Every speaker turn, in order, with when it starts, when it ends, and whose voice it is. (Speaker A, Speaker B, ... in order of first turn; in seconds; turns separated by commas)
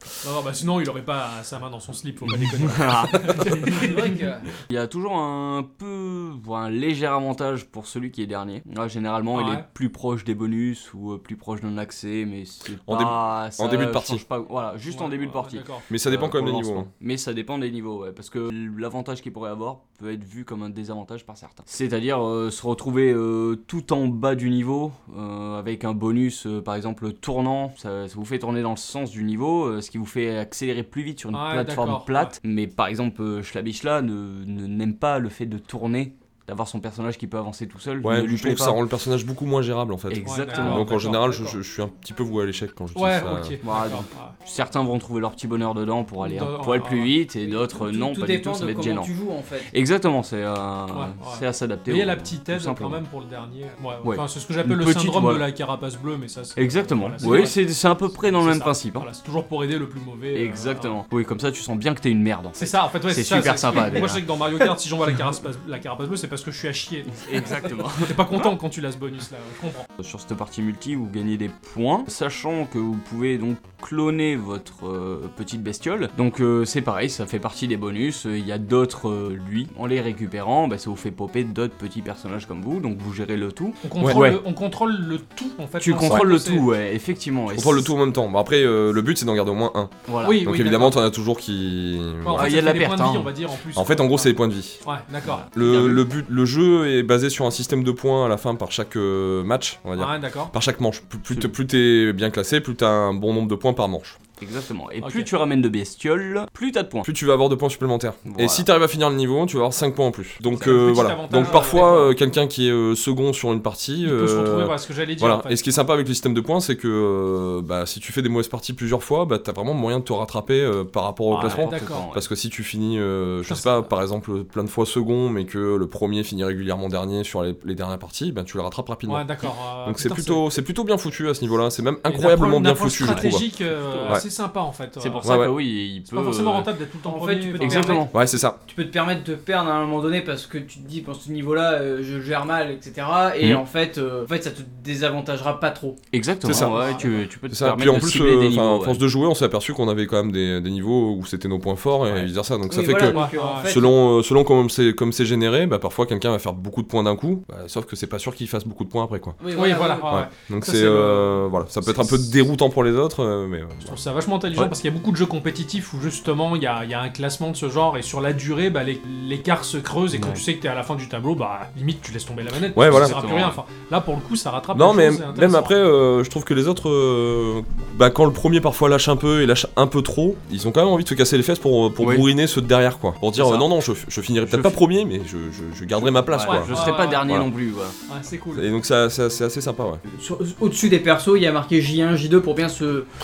Speaker A: 0.2-4.2, Speaker B: 2.2-3.9, Speaker C: 3.6-4.5, Speaker B: 4.7-38.8, Speaker A: 9.3-9.7, Speaker D: 12.9-14.2, Speaker A: 14.9-15.8, Speaker D: 15.9-16.9, Speaker A: 31.3-32.4, Speaker D: 38.0-43.6, Speaker B: 40.1-40.9, Speaker A: 40.2-41.2, Speaker C: 41.2-41.5, Speaker A: 43.0-44.4, Speaker B: 43.6-49.1, Speaker A: 46.2-47.1, Speaker C: 47.5-49.7, Speaker B: 49.7-53.0, Speaker A: 50.9-57.6, Speaker B: 54.0-55.5, Speaker B: 56.6-59.1, Speaker A: 58.2-61.0, Speaker B: 60.4-64.7, Speaker A: 62.6-69.9, Speaker B: 67.2-68.5, Speaker B: 70.0-84.4, Speaker A: 83.8-86.7, Speaker B: 85.8-87.9, Speaker D: 87.5-92.6, Speaker B: 90.1-90.5, Speaker A: 90.2-91.0, Speaker A: 92.2-95.5, Speaker B: 92.3-93.3, Speaker D: 93.7-94.8, Speaker B: 95.3-96.0, Speaker D: 95.5-104.2, Speaker A: 100.0-100.5, Speaker B: 104.4-107.1, Speaker A: 105.0-105.3, Speaker D: 107.0-129.3, Speaker B: 108.3-108.7, Speaker A: 110.5-112.2, Speaker A: 114.0-115.6, Speaker A: 121.3-122.1, Speaker B: 121.4-122.3, Speaker A: 123.5-123.9, Speaker A: 129.1-130.5, Speaker D: 129.8-133.5, Speaker A: 132.1-135.4, Speaker B: 133.0-133.4, Speaker B: 133.9-134.2, Speaker B: 135.0-136.7, Speaker D: 135.2-135.6, Speaker A: 136.1-138.1, Speaker C: 137.1-146.0, Speaker B: 137.6-138.1, Speaker D: 138.1-138.6, Speaker B: 146.1-149.0, Speaker D: 146.5-146.7, Speaker A: 146.5-147.1, Speaker C: 146.5-147.1, Speaker D: 147.5-159.4, Speaker C: 152.7-154.0, Speaker A: 153.1-153.7, Speaker C: 159.4-160.1, Speaker A: 159.5-162.3, Speaker D: 160.1-164.0, Speaker A: 163.8-175.7, Speaker B: 170.1-170.4, Speaker D: 172.8-173.2, Speaker B: 172.9-173.6, Speaker D: 174.7-187.5, Speaker B: 182.0-182.3, Speaker B: 183.4-183.7, Speaker B: 184.5-184.8, Speaker B: 186.2-188.0, Speaker A: 186.4-187.4, Speaker A: 188.1-188.7, Speaker D: 188.5-190.0, Speaker C: 190.1-193.1